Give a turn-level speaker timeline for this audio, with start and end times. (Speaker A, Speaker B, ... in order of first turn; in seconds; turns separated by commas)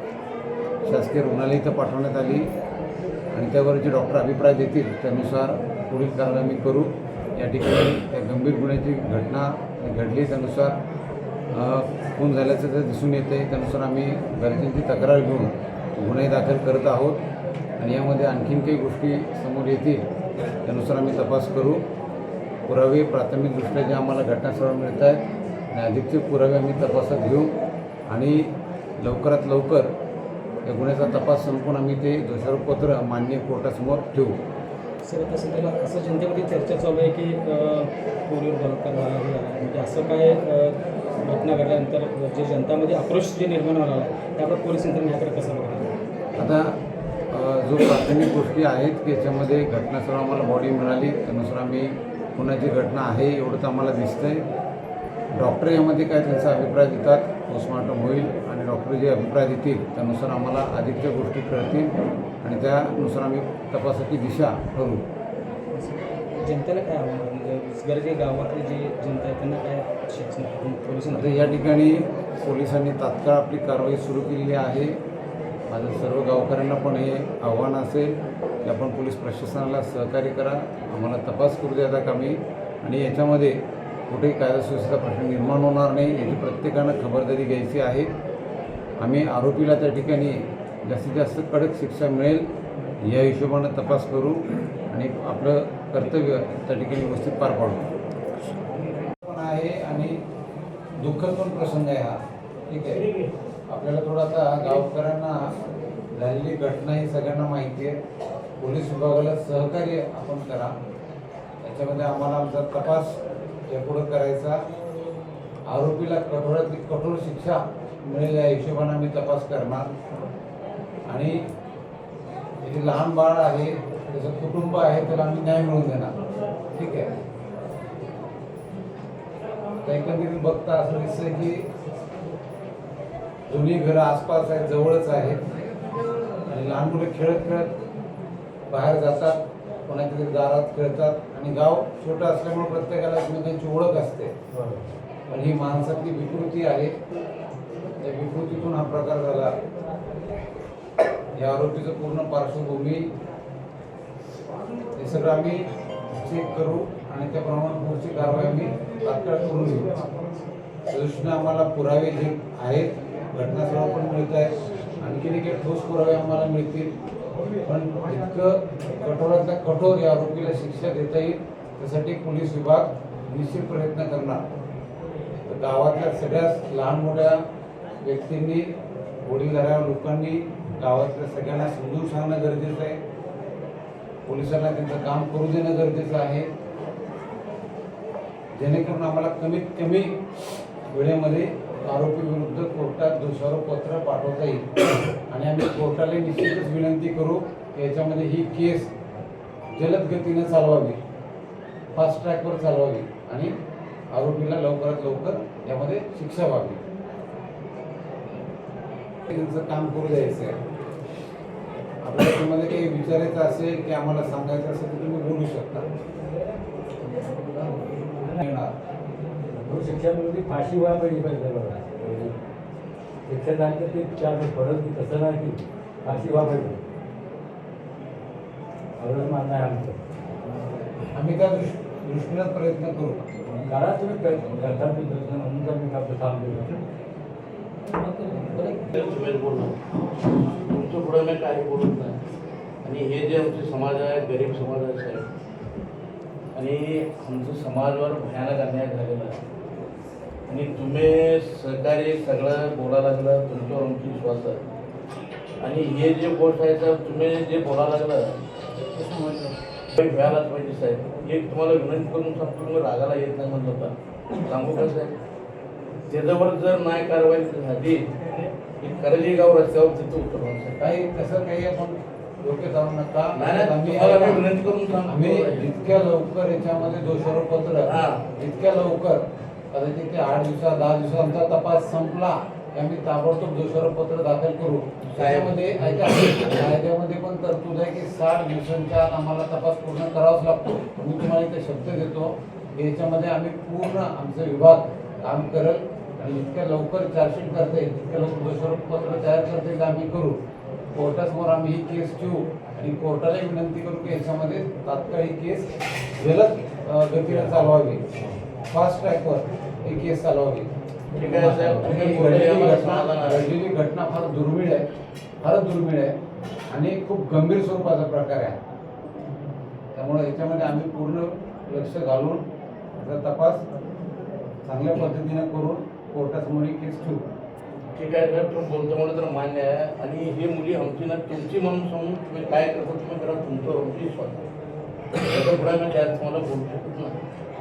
Speaker A: 0.8-2.5, Speaker A: 3.3-10.8, Speaker A: 11.5-17.2, Speaker A: 17.8-20.0, Speaker A: 20.6-21.8, Speaker A: 22.7-27.5, Speaker A: 28.1-28.4, Speaker A: 29.0-29.9, Speaker A: 30.6-34.4, Speaker B: 35.0-45.9, Speaker A: 46.4-46.8, Speaker A: 47.3-54.4, Speaker A: 55.3-61.9, Speaker A: 62.4-65.0, Speaker B: 65.7-71.5, Speaker A: 71.1-75.0, Speaker A: 75.7-88.1, Speaker A: 89.0-92.5, Speaker A: 93.0-94.4, Speaker A: 94.9-97.8, Speaker A: 99.2-100.2, Speaker A: 101.0-102.2, Speaker A: 102.7-103.0, Speaker A: 103.7-105.4, Speaker A: 106.1-108.0, Speaker A: 108.6-110.7, Speaker A: 111.6-113.2, Speaker A: 113.7-114.6, Speaker A: 115.7-119.9, Speaker A: 121.1-121.4, Speaker A: 122.6-126.1, Speaker A: 126.7-127.1, Speaker A: 129.8-131.7, Speaker A: 133.5-135.4, Speaker A: 136.5-137.7, Speaker A: 138.7-144.3, Speaker C: 144.5-144.8, Speaker A: 145.3-146.9, Speaker A: 148.0-149.5, Speaker A: 151.4-153.1, Speaker A: 154.9-159.9, Speaker A: 160.9-166.9, Speaker A: 167.6-174.4, Speaker A: 175.4-177.4, Speaker A: 178.0-178.7, Speaker A: 179.2-183.0, Speaker A: 184.2-186.5, Speaker A: 188.5-190.2, Speaker A: 190.9-194.7, Speaker A: 195.3-198.9, Speaker A: 199.7-201.0, Speaker A: 201.9-203.5, Speaker A: 204.1-206.8, Speaker A: 209.3-210.6, Speaker A: 212.0-215.9, Speaker A: 218.2-218.7, Speaker C: 219.6-222.3, Speaker C: 223.3-226.8, Speaker C: 229.0-230.0, Speaker A: 231.1-233.2, Speaker C: 233.7-236.8, Speaker D: 238.7-239.8, Speaker D: 240.7-242.2, Speaker D: 242.8-245.3, Speaker D: 246.6-249.4, Speaker D: 250.5-254.6, Speaker D: 255.6-258.3, Speaker D: 259.0-259.3, Speaker D: 260.0-263.9, Speaker D: 264.4-265.1, Speaker D: 266.1-268.1, Speaker D: 268.8-270.8, Speaker A: 270.8-274.5, Speaker D: 273.3-275.7, Speaker A: 275.1-300.4, Speaker D: 277.9-278.1, Speaker D: 285.1-285.8, Speaker A: 300.9-308.0, Speaker A: 308.7-314.9, Speaker D: 311.1-313.5, Speaker A: 315.4-316.1, Speaker A: 316.7-318.6, Speaker A: 319.9-323.6, Speaker A: 324.6-327.2, Speaker D: 327.9-334.4, Speaker D: 335.2-337.2